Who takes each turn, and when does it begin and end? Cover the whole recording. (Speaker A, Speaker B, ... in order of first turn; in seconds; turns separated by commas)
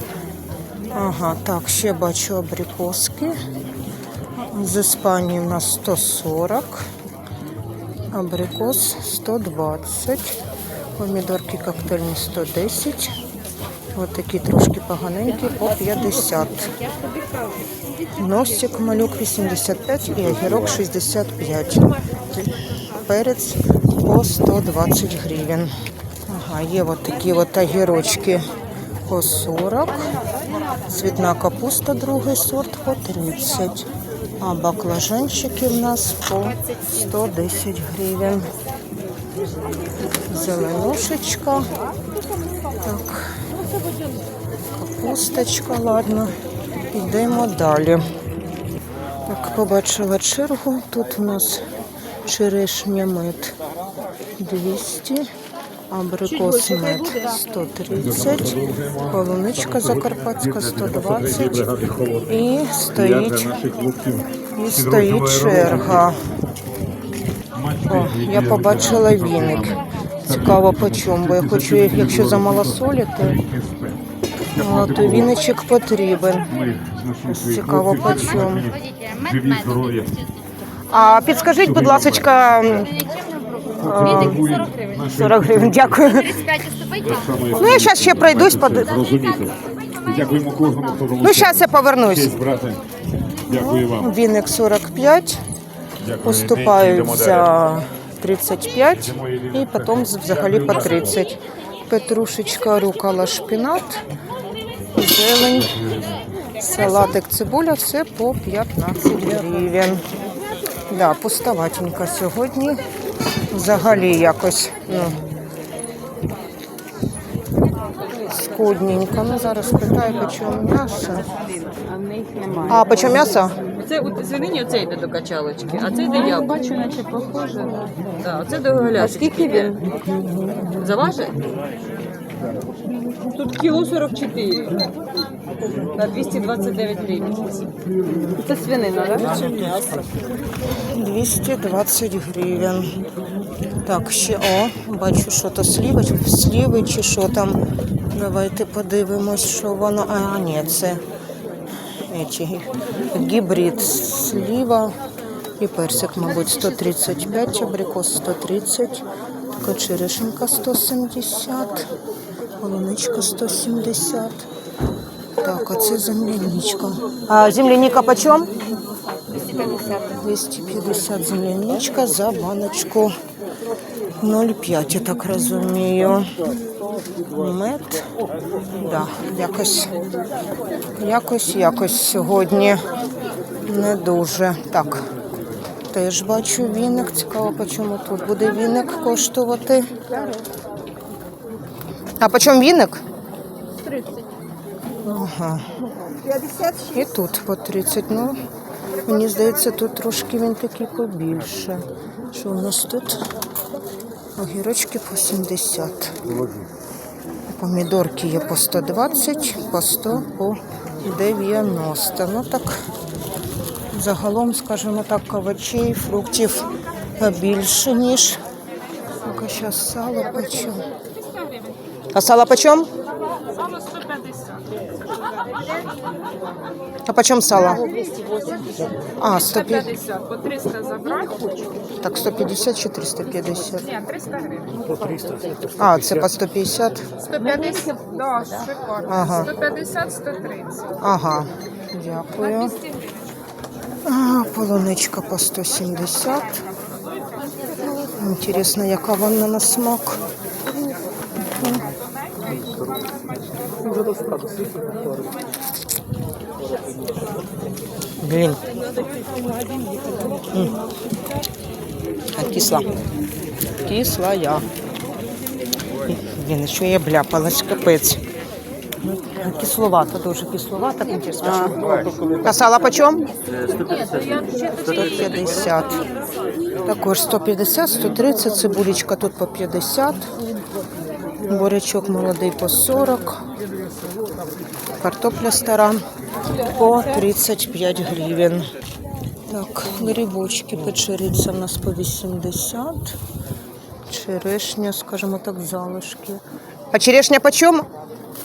Speaker A: 0.9-3.4, Speaker A: 4.4-6.9, Speaker A: 8.1-10.4, Speaker A: 11.0-13.2, Speaker A: 13.9-16.7, Speaker A: 18.1-25.7, Speaker A: 26.3-28.5, Speaker A: 29.1-30.1, Speaker A: 30.9-33.9, Speaker A: 34.4-38.5, Speaker A: 40.2-41.7, Speaker A: 42.8-43.5, Speaker A: 44.8-46.4, Speaker A: 46.9-48.1, Speaker A: 49.2-51.7, Speaker A: 52.3-53.6, Speaker A: 54.4-55.3, Speaker A: 55.9-63.7, Speaker B: 58.5-58.9, Speaker B: 61.5-62.2, Speaker B: 63.5-64.3, Speaker A: 64.5-66.3, Speaker B: 65.0-65.7, Speaker B: 67.6-69.1, Speaker A: 67.8-73.5, Speaker B: 70.5-71.2, Speaker B: 71.8-72.4, Speaker B: 73.4-74.0, Speaker A: 74.5-76.5, Speaker B: 76.7-77.8, Speaker A: 77.3-78.8, Speaker B: 78.6-80.2, Speaker A: 80.9-83.1, Speaker A: 83.7-89.1, Speaker B: 83.8-85.6, Speaker B: 87.1-91.5, Speaker A: 91.2-92.5, Speaker B: 92.3-92.8, Speaker A: 93.5-95.4, Speaker B: 93.6-94.0, Speaker A: 96.1-104.0, Speaker B: 96.1-97.0, Speaker A: 104.9-105.9, Speaker A: 106.6-110.1, Speaker A: 110.9-112.9, Speaker A: 113.5-115.2, Speaker A: 118.2-121.3, Speaker C: 121.8-122.9, Speaker A: 122.7-123.6, Speaker C: 123.7-127.0, Speaker D: 126.0-127.9, Speaker C: 127.6-129.9, Speaker D: 129.0-129.7, Speaker A: 130.2-130.8, Speaker C: 130.6-131.5, Speaker C: 133.2-134.9, Speaker C: 135.9-137.7, Speaker A: 138.1-138.5, Speaker C: 138.4-140.0, Speaker A: 140.7-143.0, Speaker A: 143.8-151.0, Speaker A: 152.0-155.0, Speaker A: 155.6-159.1, Speaker A: 159.6-161.9, Speaker A: 162.6-164.5, Speaker A: 165.4-168.5, Speaker A: 169.9-173.1, Speaker A: 174.2-176.3, Speaker A: 177.3-178.1, Speaker A: 178.8-180.0, Speaker A: 180.9-182.8, Speaker A: 183.7-185.1, Speaker A: 185.9-190.1, Speaker A: 192.2-193.0, Speaker A: 195.0-195.7, Speaker A: 196.7-198.4, Speaker A: 199.0-203.3, Speaker A: 204.4-206.2, Speaker A: 207.5-212.8, Speaker A: 213.9-218.4, Speaker A: 219.2-220.9, Speaker A: 222.1-222.9, Speaker D: 223.6-224.6, Speaker A: 227.1-227.9, Speaker A: 229.2-230.1, Speaker D: 230.0-231.5, Speaker A: 232.0-234.1, Speaker D: 234.1-234.7, Speaker C: 234.9-235.4, Speaker A: 235.8-237.1, Speaker D: 237.3-240.9, Speaker C: 237.7-238.4, Speaker A: 239.0-239.6, Speaker A: 241.0-242.8, Speaker A: 244.0-246.7, Speaker A: 248.1-250.2, Speaker A: 251.5-251.8, Speaker C: 253.8-255.2, Speaker A: 258.2-258.6, Speaker A: 260.5-260.8, Speaker A: 262.3-262.9, Speaker A: 263.8-264.7, Speaker A: 266.0-268.2, Speaker A: 269.0-273.3, Speaker C: 273.5-274.6, Speaker D: 273.8-274.7, Speaker A: 274.8-276.1, Speaker A: 276.8-280.3, Speaker A: 281.4-283.5, Speaker A: 285.0-288.7, Speaker A: 289.5-293.2, Speaker A: 294.1-297.9